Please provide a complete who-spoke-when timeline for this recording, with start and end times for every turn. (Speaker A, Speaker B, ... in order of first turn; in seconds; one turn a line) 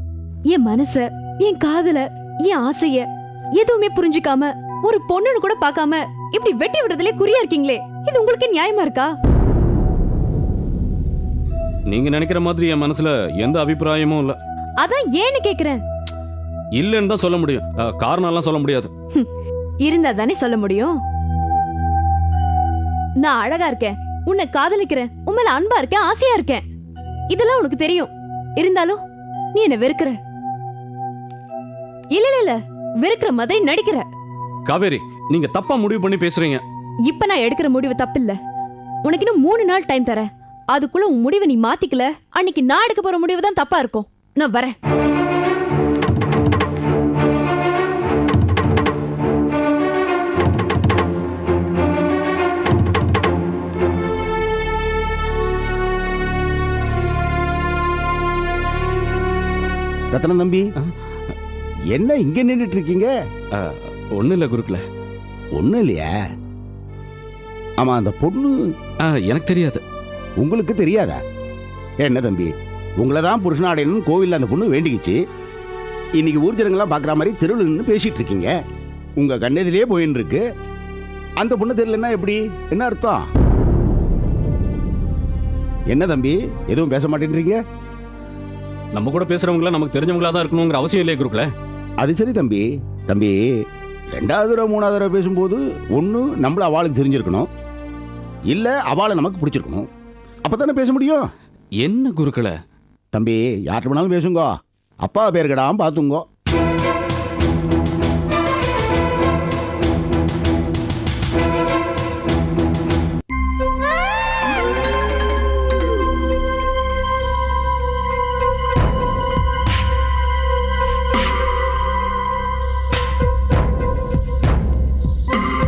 Speaker A: 0.5-9.1
Speaker B: 11.9-14.4
Speaker A: 14.8-15.8
Speaker B: 16.8-18.9
Speaker A: 19.8-21.0
Speaker A: 23.2-26.7
Speaker A: 27.3-29.0
Speaker A: 29.5-30.2
Speaker A: 32.1-34.0
Speaker B: 34.7-36.6
Speaker A: 37.1-38.4
Speaker A: 39.0-44.8
Speaker C: 60.1-60.7
Speaker B: 60.8-61.3
Speaker C: 61.9-63.1
Speaker B: 63.5-64.8
Speaker C: 65.6-66.1
Speaker C: 67.8-68.6
Speaker B: 69.0-69.8
Speaker C: 70.4-71.2
Speaker C: 72.0-75.2
Speaker C: 76.2-78.6
Speaker C: 79.2-80.4
Speaker C: 81.4-83.2
Speaker C: 85.9-87.6
Speaker B: 88.9-91.5
Speaker C: 92.0-93.4
Speaker C: 94.1-97.5
Speaker C: 98.5-99.9
Speaker C: 100.4-101.3
Speaker B: 101.8-102.5
Speaker C: 103.1-106.2